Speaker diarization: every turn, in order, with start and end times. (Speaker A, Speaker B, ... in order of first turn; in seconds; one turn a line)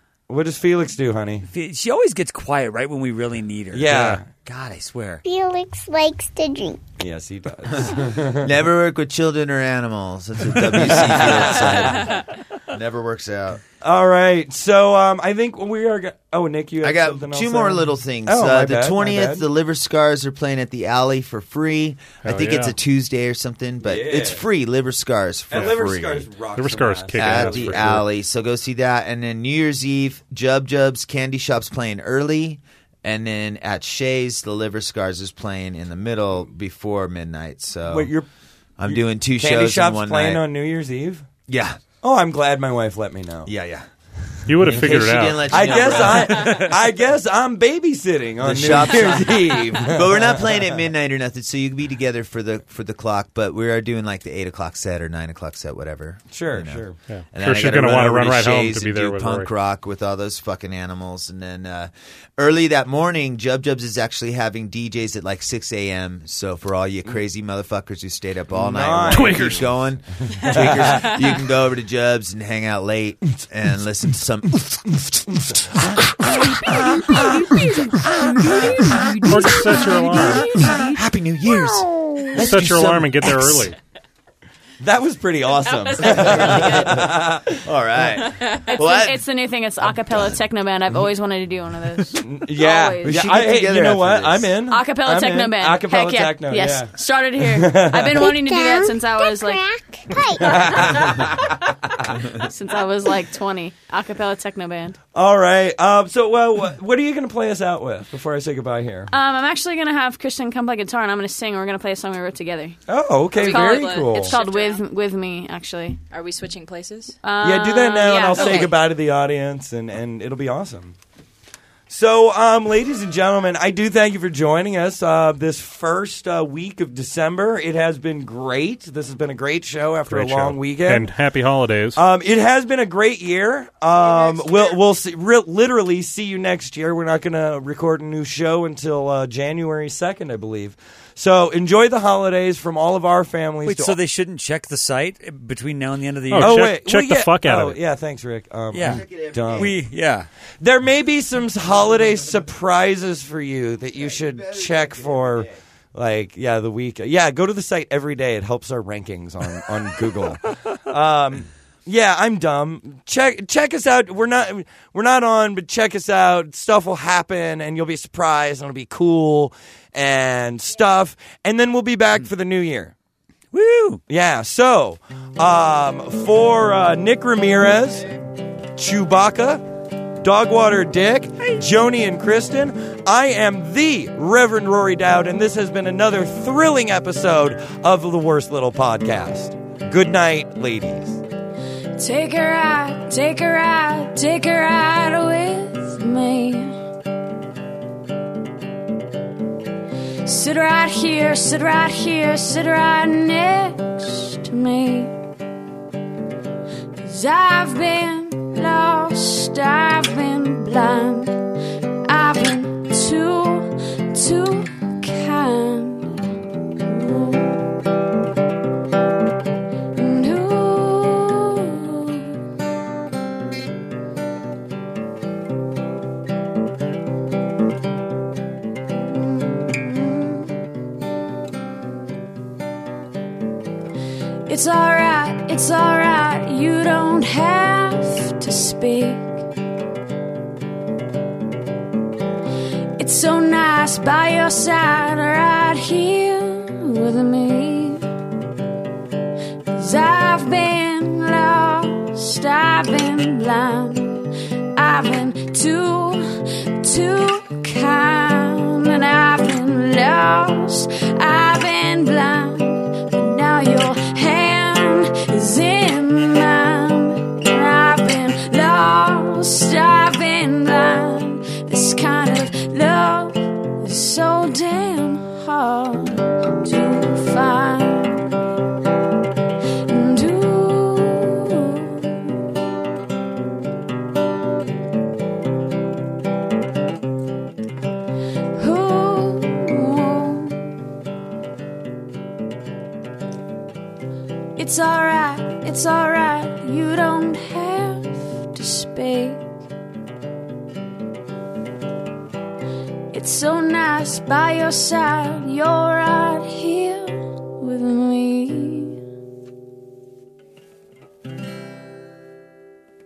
Speaker A: 0.3-1.5
Speaker B: 1.5-5.2
Speaker A: 3.7-4.3
Speaker C: 5.2-6.8
Speaker A: 7.0-8.5
Speaker D: 8.4-13.6
Speaker A: 10.8-12.1
Speaker A: 13.8-19.4
Speaker D: 16.8-26.3
Speaker E: 22.2-22.7
Speaker A: 23.8-24.5
Speaker A: 25.5-27.9
Speaker E: 26.6-28.1
Speaker D: 27.2-38.1
Speaker A: 37.9-38.3
Speaker D: 38.8-40.4
Speaker A: 38.8-41.3
Speaker D: 41.5-41.8
Speaker A: 42.0-43.5
Speaker D: 43.5-43.9
Speaker E: 44.5-45.8
Speaker D: 44.6-46.7
Speaker A: 45.5-50.8
Speaker B: 45.9-46.5
Speaker D: 48.4-74.9
Speaker A: 56.3-57.0
Speaker E: 57.1-59.5
Speaker A: 68.5-69.6
Speaker E: 69.1-69.7
Speaker A: 70.2-71.2
Speaker A: 74.9-75.7
Speaker F: 78.1-81.0
Speaker D: 78.5-78.8
Speaker E: 79.2-80.6
Speaker D: 80.9-83.7
Speaker C: 81.9-82.2
Speaker E: 82.4-83.8
Speaker A: 84.8-87.7
Speaker G: 85.6-86.9
Speaker D: 86.0-87.0
Speaker D: 87.6-89.2
Speaker H: 88.8-93.2
Speaker A: 92.2-98.2
Speaker D: 93.0-94.6
Speaker H: 94.7-99.7
Speaker C: 98.1-101.1
Speaker A: 100.4-102.1
Speaker H: 102.3-105.0
Speaker A: 105.1-109.1
Speaker H: 109.1-112.8
Speaker A: 112.9-114.4
Speaker G: 113.3-114.8
Speaker H: 113.3-116.0
Speaker G: 116.1-117.2
Speaker H: 117.2-118.7
Speaker A: 117.4-121.0
Speaker G: 118.3-118.7
Speaker A: 121.9-131.1
Speaker E: 130.1-132.0
Speaker A: 131.9-144.0
Speaker H: 134.2-134.8
Speaker B: 143.6-146.7
Speaker E: 146.3-147.8
Speaker A: 146.3-149.8
Speaker B: 148.7-150.3
Speaker D: 148.8-149.8
Speaker A: 150.6-172.9
Speaker D: 154.2-155.5
Speaker B: 173.5-174.0
Speaker A: 174.1-178.1
Speaker A: 178.8-179.6
Speaker A: 180.2-191.2
Speaker F: 192.0-196.1
Speaker H: 196.2-196.5
Speaker F: 200.3-204.2
Speaker H: 204.6-205.0
Speaker F: 207.1-211.3
Speaker F: 212.1-216.0
Speaker F: 216.8-217.4
Speaker F: 220.0-221.6
Speaker F: 229.4-230.1
Speaker F: 234.5-239.2
Speaker F: 243.0-248.0
Speaker F: 249.8-254.2
Speaker F: 254.8-256.2
Speaker F: 256.8-276.1
Speaker F: 276.6-278.1
Speaker F: 279.9-281.9
Speaker F: 288.6-290.6
Speaker F: 294.6-299.4
Speaker F: 303.1-308.0